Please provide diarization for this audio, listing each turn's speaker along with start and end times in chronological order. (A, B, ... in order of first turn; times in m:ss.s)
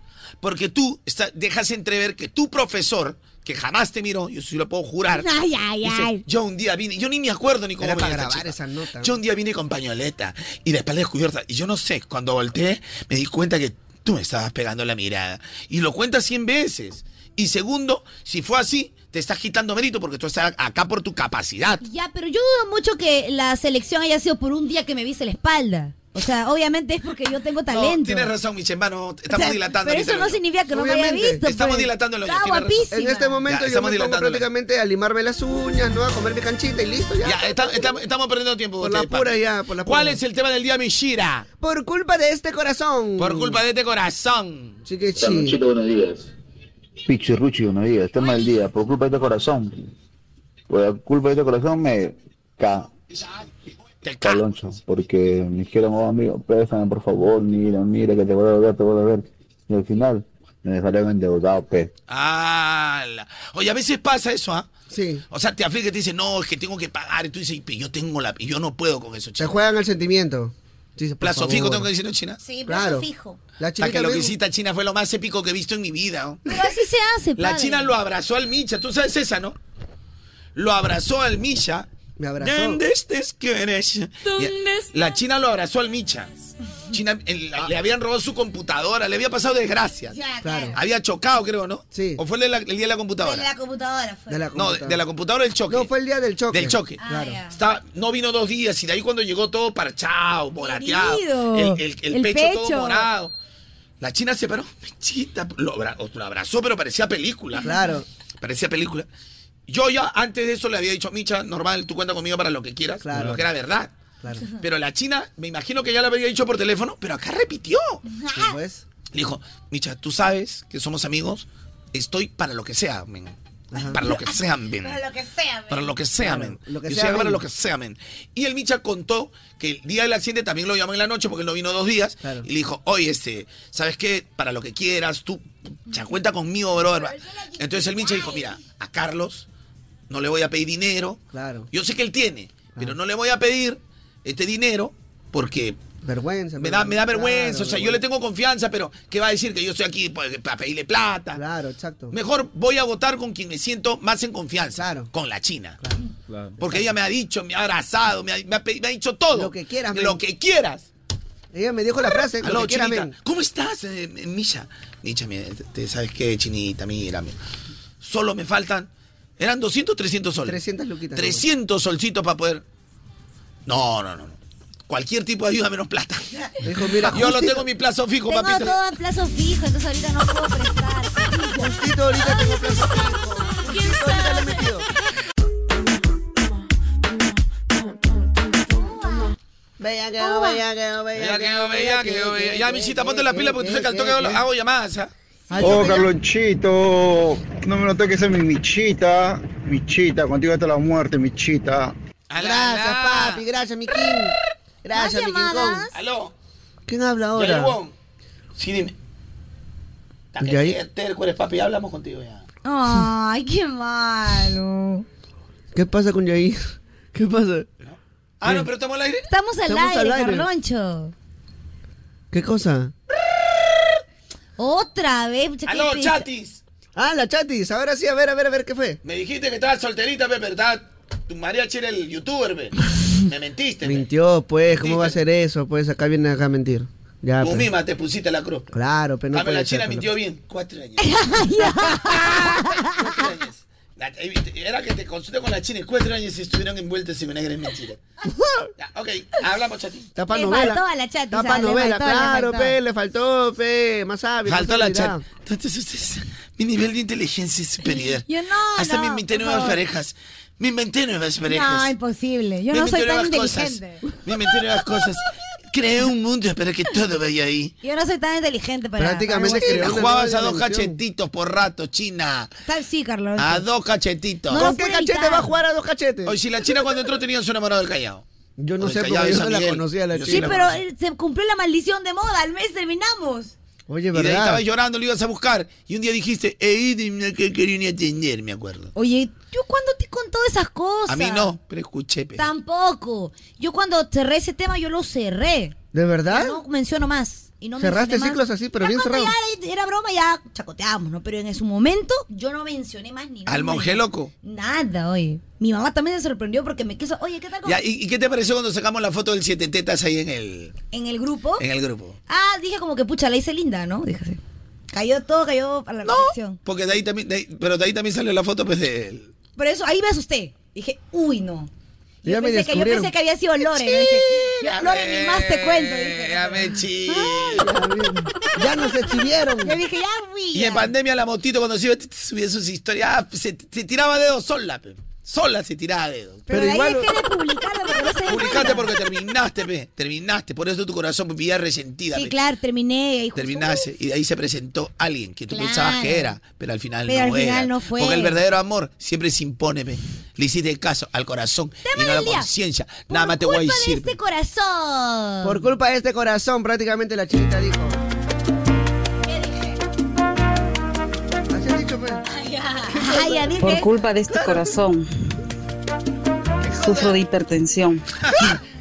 0:00.4-0:05.3 A
0:05.1-0:06.2 B
0:05.8-0:21.8 A
0:07.8-0:09.2 C
0:21.8-0:28.3 B
0:27.7-0:30.4 A
0:29.3-0:33.4 B
0:30.7-0:31.4 C
0:31.4-0:32.9 A
0:32.9-0:37.9 C
0:33.5-0:34.5 A
0:37.2-0:41.4 A
0:38.8-0:40.2 C
0:41.6-0:43.6 C
0:43.2-0:44.8 A
0:44.8-0:45.6 C
0:45.2-0:46.3 D
0:47.0-0:49.9 D
0:50.7-0:52.9 D
0:54.0-0:54.5 A
0:54.2-1:01.9 D
1:02.1-1:04.7 A
1:04.9-1:05.2 C
1:05.3-1:09.5 A
1:09.4-1:11.9 C
1:11.2-1:12.4 A
1:12.4-1:13.4 B
1:12.6-1:13.1 C
1:13.6-1:14.3 C
1:13.8-1:16.4 A
1:16.5-1:17.9 B
1:17.4-1:19.6 A
1:20.5-1:21.9 A
1:22.2-1:22.8 C
1:22.4-1:26.3 A
1:26.9-1:30.2 A
1:30.1-1:30.8 B
1:30.4-1:30.8 C
1:30.7-1:33.5 A
1:31.9-1:32.2 C
1:33.2-1:34.4 B
1:34.3-1:35.0 C
1:34.5-1:35.9 A
1:35.7-1:37.4 C
1:36.5-1:43.3 A
1:37.0-1:37.5 B
1:40.6-1:43.0 B
1:44.0-1:47.7 A
1:47.6-1:48.0 C
1:48.4-1:49.1 A
1:49.7-1:53.9 A
1:53.0-1:53.4 C
1:54.6-1:58.0 A
1:58.1-1:58.5 B
1:58.3-1:58.8 C
1:59.1-2:05.0 A
2:03.7-2:04.0 C
2:03.9-2:05.9 B
2:05.7-2:19.4 A
2:06.2-2:07.4 C
2:16.8-2:18.6 B
2:20.1-2:21.2 A
2:21.3-2:21.7 C
2:21.7-2:25.8 A
2:26.0-2:28.0 C
2:26.6-2:31.4 A
2:31.3-2:32.1 C
2:32.1-2:35.8 A
2:34.8-2:35.1 C
2:36.6-2:40.9 A
2:36.6-2:36.9 C
2:39.3-2:40.2 C
2:41.5-2:43.1 C
2:42.4-2:47.4 A
2:48.0-2:50.6 A
2:50.4-2:51.4 C
2:51.1-2:52.6 A
2:53.6-2:54.4 A
2:54.9-2:58.8 A
2:56.6-2:57.6 C
2:58.3-3:01.7 B
3:01.6-3:04.8 C
3:08.7-3:09.3 B
3:09.8-3:14.4 C
3:10.2-3:10.6 B
3:11.1-3:15.1 A
3:15.5-3:16.0 B
3:15.5-3:16.1 C
3:15.6-3:21.9 E
3:22.3-3:23.4 A
3:22.4-3:25.9 C
3:24.9-3:25.9 B
3:25.9-3:26.3 A
3:26.9-3:27.8 C
3:27.3-3:27.9 A
3:28.6-3:28.9 A
3:30.3-3:32.4 A
3:30.4-3:30.8 C
3:32.6-3:35.0 B
3:35.7-3:37.7 C
3:37.8-3:39.3 A
3:39.3-3:41.1 B
3:39.7-3:40.4 C
3:42.3-3:42.9 C
3:44.6-3:46.2 B
3:45.6-3:46.6 A
3:47.0-3:49.0 C
3:49.0-3:54.1 A
3:53.8-3:57.7 C
3:54.7-3:55.2 A
3:57.4-3:58.7 A
3:58.7-4:00.1 C
3:59.3-4:01.1 A
4:01.0-4:03.1 B
4:02.0-4:08.0 A
4:08.8-4:10.1 A
4:10.2-4:15.2 C
4:10.3-4:12.8 B
4:14.4-4:21.9 A
4:17.8-4:19.8 B
4:21.5-4:24.0 B
4:22.7-4:27.7 A
4:27.8-4:30.0 B
4:29.0-4:31.0 C
4:29.5-4:32.5 A
4:32.6-4:33.6 B
4:33.4-4:34.7 A
4:34.5-4:36.4 C
4:34.5-4:35.5 B
4:36.2-4:38.2 A
4:38.6-4:40.6 C
4:38.8-4:40.8 A
4:40.3-4:43.5 B
4:43.9-4:44.6 C
4:44.1-4:48.9 A
4:48.9-4:51.5 B
4:51.1-4:52.4 A
4:52.4-4:55.8 B
4:55.9-4:56.6 C
4:56.3-5:07.8 B
4:57.8-4:59.3 C
5:03.5-5:04.3 A
5:07.6-5:10.7 A
5:10.9-5:11.6 B
5:11.6-5:12.2 A
5:12.3-5:14.4 B
5:14.9-5:16.6 B
5:16.0-5:19.3 A
5:19.6-5:21.7 B
5:22.2-5:26.8 B
5:22.2-5:23.1 C
5:23.7-5:27.6 A
5:27.0-5:29.8 C
5:29.6-5:30.9 B
5:30.5-5:36.4 A
5:36.5-5:37.1 C
5:36.5-5:38.9 B
5:38.3-5:42.3 A
5:42.1-5:43.9 B
5:43.3-5:54.1 A
5:45.5-5:46.3 B
5:47.1-5:48.4 B
5:51.8-5:52.5 B
5:53.1-5:55.6 B
5:55.4-5:58.0 C
5:59.3-5:59.7 B
6:01.5-6:02.2 C
6:02.3-6:03.9 B
6:02.9-6:03.5 C
6:03.6-6:05.0 F
6:06.6-6:08.0 F